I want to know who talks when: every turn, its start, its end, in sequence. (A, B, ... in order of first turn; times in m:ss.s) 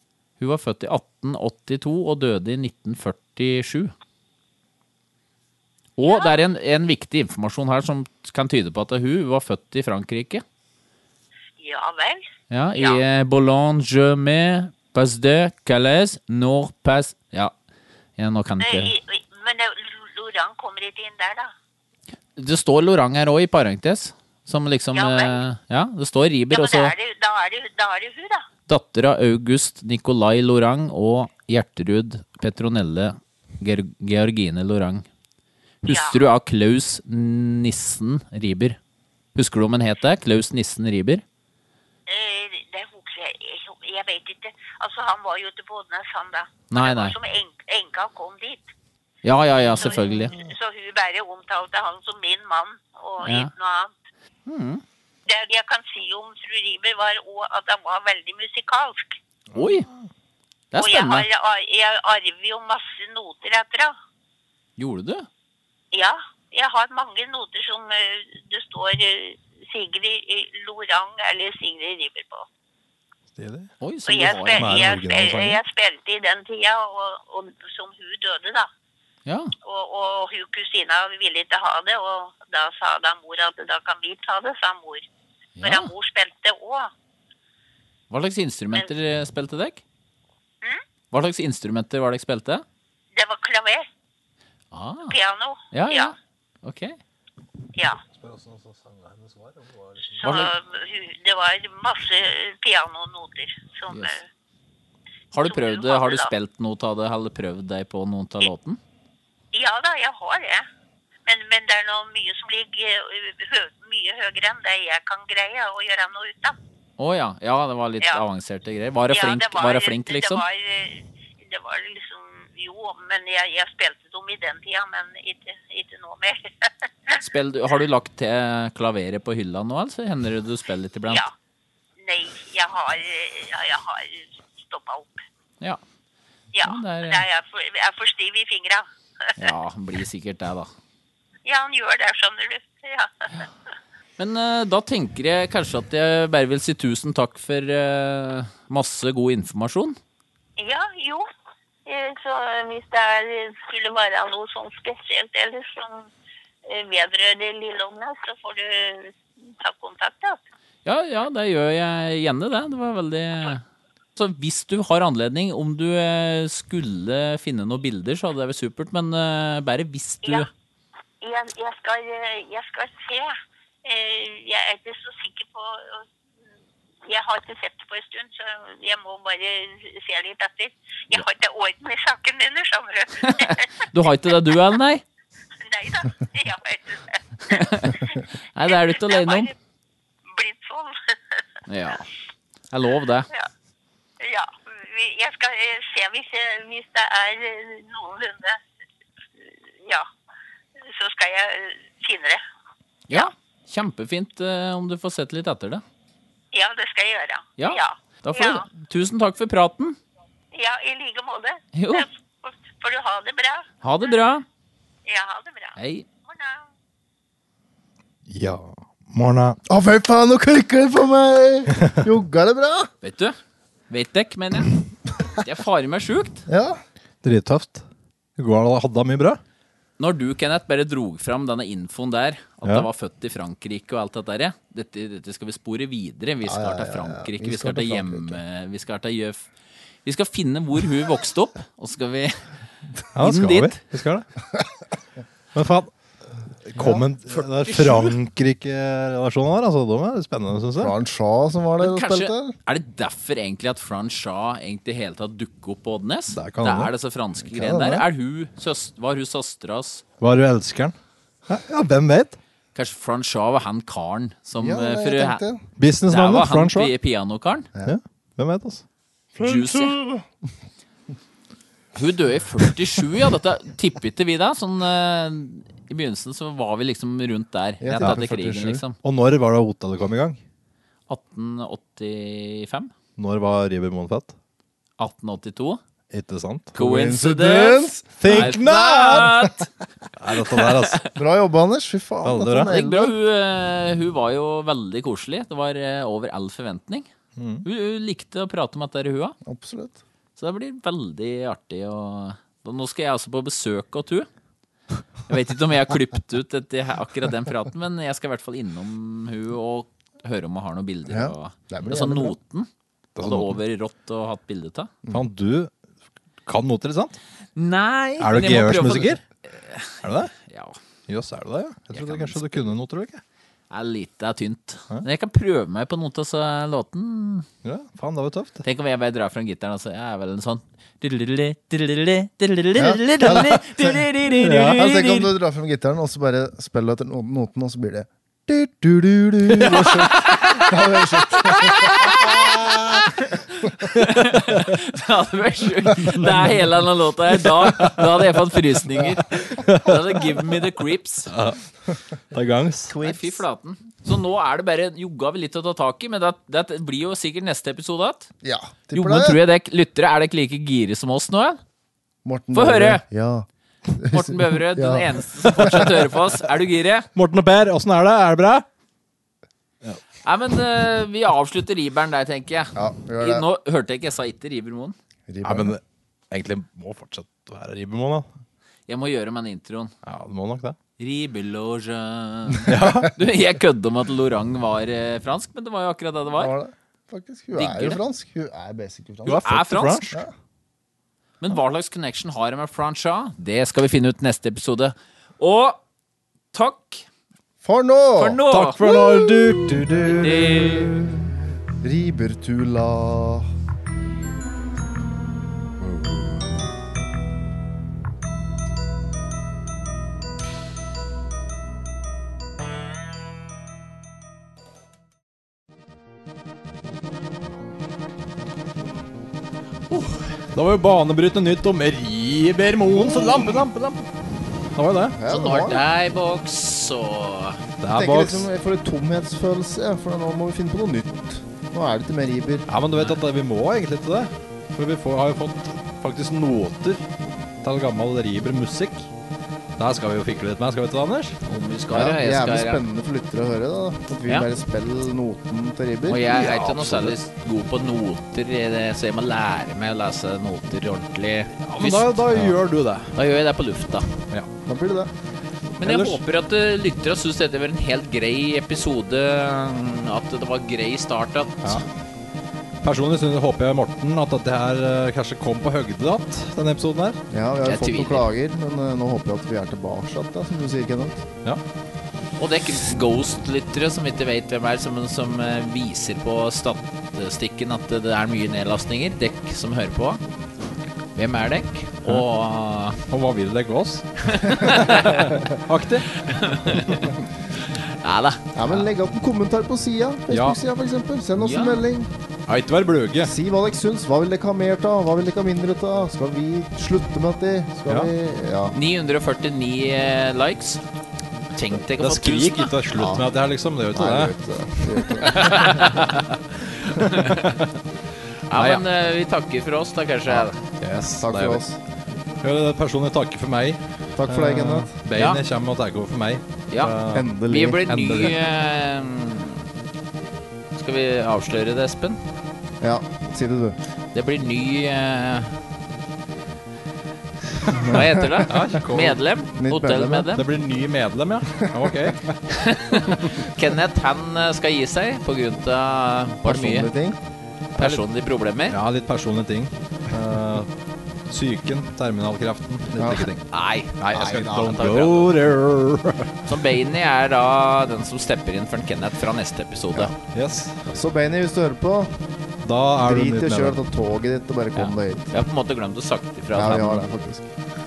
0:00.4-0:03.9 A
0:06.0-0:10.4 A
0:06.0-0:06.4 B
0:11.6-0:12.2 B
0:12.5-0:17.5 A
0:18.2-0:18.9 A
0:18.6-0:21.5 B
0:22.4-0:26.9 A
0:24.9-0:25.4 B
0:26.5-0:28.5 B
0:28.7-0:35.0 A
0:35.8-0:38.8 A
0:35.9-0:36.2 B
0:39.3-0:41.2 A
0:42.1-0:48.7 B
0:46.7-0:47.1 A
0:49.2-0:50.4 A
0:49.7-0:53.9 B
0:53.2-0:53.5 A
0:54.5-0:54.8 A
0:55.2-0:59.2 B
0:59.5-1:00.0 C
0:59.5-0:59.9 A
1:00.7-1:01.2 A
1:00.7-1:03.9 B
1:04.8-1:05.3 A
1:05.9-1:12.5 B
1:13.3-1:13.7 C
1:13.8-1:14.7 A
1:14.1-1:18.7 B
1:14.6-1:15.6 C
1:19.2-1:19.5 A
1:19.6-1:25.0 B
1:25.6-1:25.9 A
1:25.6-1:26.9 B
1:28.1-1:29.8 A
1:31.1-1:32.6 A
1:33.1-1:33.9 B
1:34.7-1:35.2 A
1:35.1-1:36.1 B
1:35.7-1:37.0 A
1:38.1-1:40.2 C
1:40.0-1:44.2 B
1:40.2-1:40.5 A
1:43.9-1:44.2 A
1:45.3-1:48.8 A
1:45.3-1:46.3 B
1:49.5-1:50.7 B
1:51.2-1:56.6 B
1:57.0-2:00.4 A
1:59.1-2:07.2 B
2:07.2-2:11.2 A
2:12.0-2:15.2 B
2:16.5-2:18.8 B
2:16.6-2:17.2 A
2:19.4-2:20.7 A
2:21.4-2:23.5 B
2:24.2-2:30.0 A
2:30.6-2:31.2 B
2:31.8-2:36.1 B
2:36.7-2:40.4 B
2:40.8-2:43.6 A
2:44.2-2:50.5 A
2:50.2-2:50.5 B
2:51.2-2:56.1 B
2:57.0-3:03.7 B
3:03.2-3:05.0 A
3:04.3-3:04.6 B
3:05.6-3:09.5 B
3:07.5-3:09.5 A
3:10.3-3:11.4 B
3:11.7-3:12.1 A
3:12.7-3:13.3 A
3:14.2-3:18.6 B
3:19.4-3:20.1 B
3:20.8-3:22.4 B
3:23.1-3:25.8 A
3:26.5-3:28.7 B
3:27.6-3:30.0 A
3:30.5-3:34.2 B
3:31.7-3:32.0 A
3:33.8-3:34.4 A
3:35.0-3:36.7 B
3:35.8-3:36.0 A
3:38.3-3:39.6 C
3:39.7-3:42.9 D
3:43.0-3:43.4 A
3:43.9-3:44.7 A
3:45.4-3:46.4 A
3:46.5-3:46.8 D
3:47.2-3:47.8 C
3:48.4-3:49.4 C
3:50.0-3:59.5 A
3:56.4-3:58.4 D
4:00.0-4:02.6 A
4:03.1-4:03.8 A
4:03.1-4:04.3 C
4:05.5-4:05.9 C
4:06.7-4:10.9 C
4:06.8-4:07.0 D
4:07.4-4:08.1 A
4:10.8-4:12.5 D
4:11.8-4:20.0 A
4:16.3-4:16.9 C
4:17.5-4:18.0 D
4:20.2-4:20.9 C
4:21.5-4:22.4 C
4:22.7-4:25.4 A
4:24.6-4:25.6 D
4:25.8-4:26.9 C
4:26.1-4:27.7 A
4:27.8-4:28.8 C
4:29.3-4:30.3 D
4:29.4-4:29.9 A
4:32.0-4:39.0 A
4:37.8-4:38.8 D
4:39.0-4:40.4 C
4:41.1-4:42.9 A
4:43.2-4:44.3 C
4:45.0-4:45.8 A
4:46.1-4:46.7 C
4:46.7-4:48.5 D
4:46.7-4:49.7 A
4:48.2-4:49.5 C
4:50.2-4:51.0 C
4:50.3-4:51.0 A
4:51.2-4:53.1 D
4:52.2-4:52.7 C
4:52.7-4:57.1 A
4:57.4-4:57.6 C
4:57.6-4:59.4 A
4:59.4-5:00.0 D
5:00.4-5:04.3 A
5:05.3-5:12.7 A
5:11.1-5:12.4 D
5:13.2-5:13.6 C
5:13.2-5:14.9 A
5:15.1-5:15.7 C
5:16.4-5:17.2 C
5:17.6-5:20.8 A
5:18.2-5:19.2 C
5:20.0-5:20.3 C
5:21.1-5:23.2 C
5:21.9-5:22.7 A
5:23.7-5:27.5 A
5:27.6-5:28.6 C
5:28.6-5:35.3 A
5:32.8-5:34.0 D
5:34.4-5:35.1 C
5:34.7-5:42.2 D
5:39.8-5:40.8 A
5:41.4-5:42.5 A
5:42.4-5:42.8 C
5:43.2-5:51.3 A
5:51.3-5:52.9 C
5:52.9-5:53.4 D
5:52.9-5:58.3 A
5:58.4-5:59.4 D
5:58.9-6:01.6 A
6:02.2-6:05.9 D
6:02.5-6:03.0 A
6:04.1-6:07.1 A
6:07.1-6:08.6 C
6:10.2-6:14.9 A
6:12.7-6:13.4 D
6:15.3-6:15.7 D
6:15.4-6:18.2 C
6:18.9-6:19.9 A
6:20.0-6:20.8 C
6:21.0-6:26.5 A
6:22.6-6:23.1 C
6:26.4-6:29.4 D
6:27.5-6:28.0 A
6:29.2-6:30.2 C
6:29.3-6:30.0 A
6:31.4-6:35.8 A
6:36.5-6:37.0 A
6:37.6-6:43.5 D
6:38.2-6:38.8 A
6:38.5-6:40.3 C
6:40.2-6:40.9 A
6:45.8-6:46.6 D
6:59.9-7:00.3 A
7:00.5-7:04.2 C
7:02.9-7:03.6 D
7:04.7-7:05.2 C
7:05.1-7:05.8 D
7:05.2-7:07.6 A
7:07.8-7:08.5 C
7:07.9-7:12.7 D
7:12.7-7:17.0 C
7:17.6-7:19.1 C
7:19.8-7:21.4 C
7:21.5-7:22.8 A
7:21.9-7:26.2 D
7:26.1-7:32.6 A
7:26.3-7:27.1 C
7:31.6-7:33.2 C
7:33.1-7:34.1 A
7:34.6-7:35.1 D
7:35.8-7:41.8 A
7:35.8-7:36.2 C
7:42.8-7:47.2 C
7:47.3-7:51.2 D
7:47.6-7:48.2 A
7:52.4-8:00.2 A
8:01.1-8:03.0 A
8:03.1-8:06.2 C
8:04.3-8:05.3 A
8:06.1-8:07.1 A
8:06.7-8:07.0 C
8:07.7-8:08.8 A
8:08.5-8:12.1 D
8:10.3-8:10.6 C
8:11.4-8:11.8 A
8:12.5-8:13.3 C
8:13.2-8:18.7 D
8:18.7-8:20.8 A
8:21.5-8:22.7 A
8:21.9-8:25.8 C
8:22.9-8:23.2 D
8:23.9-8:25.8 D
8:25.4-8:26.0 A
8:26.9-8:27.5 A
8:28.5-8:30.6 A
8:28.5-8:28.8 C
8:30.8-8:31.6 C
8:31.1-8:31.8 D
8:32.4-8:37.3 C
8:34.2-8:34.9 D
8:35.1-8:35.4 A
8:36.7-8:39.6 A
8:37.1-8:37.8 D
8:37.9-8:38.3 C
8:40.8-8:42.2 A
8:42.8-8:43.8 D
8:44.1-8:45.6 A
8:47.7-8:50.4 A
8:48.5-8:49.2 C
8:49.6-8:50.3 D
8:50.3-8:52.4 C
8:52.5-8:56.9 A
8:56.4-8:57.2 D
8:57.8-8:58.0 C
8:57.8-8:58.8 A
8:58.7-9:00.7 C
9:01.3-9:03.4 C
9:02.9-9:03.2 D
9:03.0-9:05.3 A
9:04.0-9:06.3 C
9:04.1-9:04.9 D
9:06.4-9:10.1 A
9:10.3-9:10.9 C
9:10.9-9:12.2 D
9:12.6-9:13.8 C
9:13.0-9:15.3 D
9:14.8-9:17.0 A
9:16.5-9:17.5 D